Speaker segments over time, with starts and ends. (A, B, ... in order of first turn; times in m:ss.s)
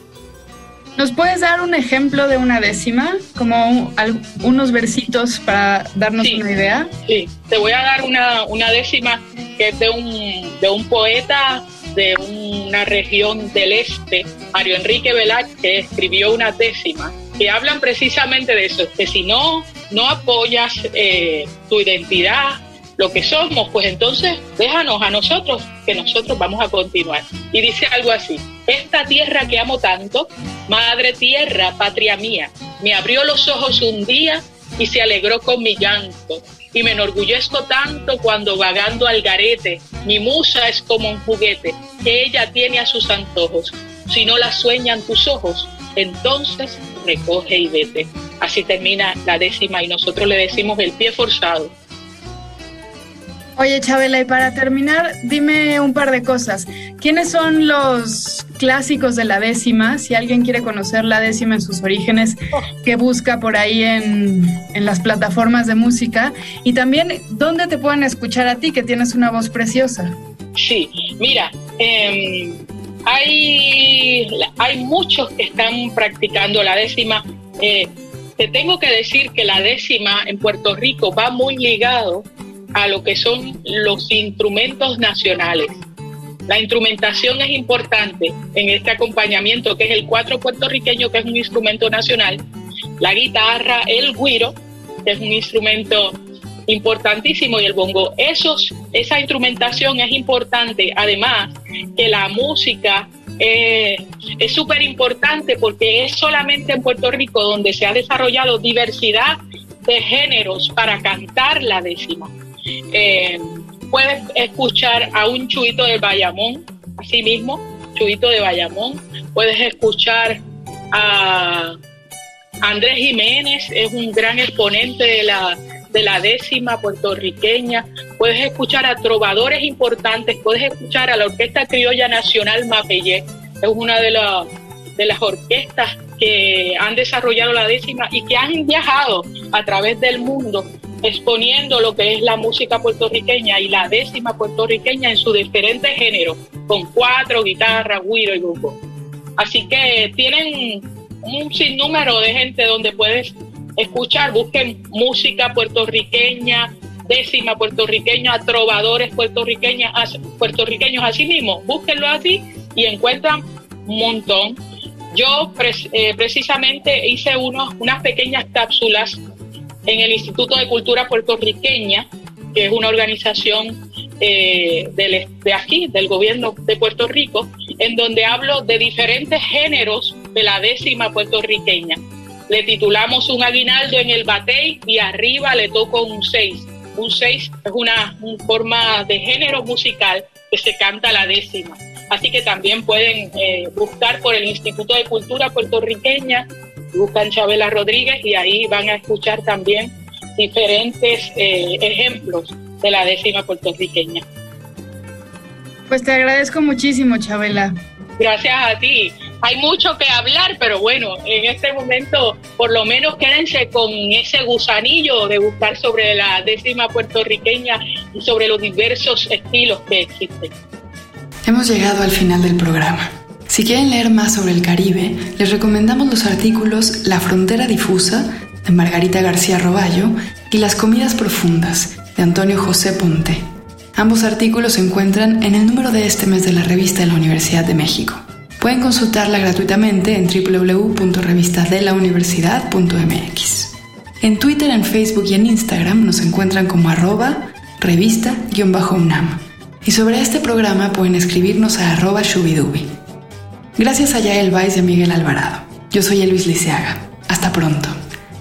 0:01.0-0:06.9 A
0:06.2-0:06.5 B
0:07.1-0:51.7 B
0:53.6-1:10.2 A
1:10.6-1:25.8 B
1:26.5-1:32.4 B
1:33.0-1:52.3 B
1:52.9-2:00.4 B
2:00.9-2:01.7 B
2:02.6-2:28.8 B
2:29.4-2:44.6 B
2:45.1-2:49.2 B
2:49.9-3:24.2 B
3:25.9-3:27.7 A
3:28.2-3:40.5 B
3:41.5-3:53.4 C
3:54.0-4:03.7 C
3:56.4-3:58.1 A
3:58.7-3:59.7 A
4:01.2-4:03.6 A
4:04.2-4:12.8 C
4:04.3-4:07.3 A
4:07.8-4:09.2 A
4:11.3-4:11.6 A
4:12.2-4:12.8 A
4:13.8-4:17.9 C
4:13.8-4:16.8 A
4:17.4-4:17.7 A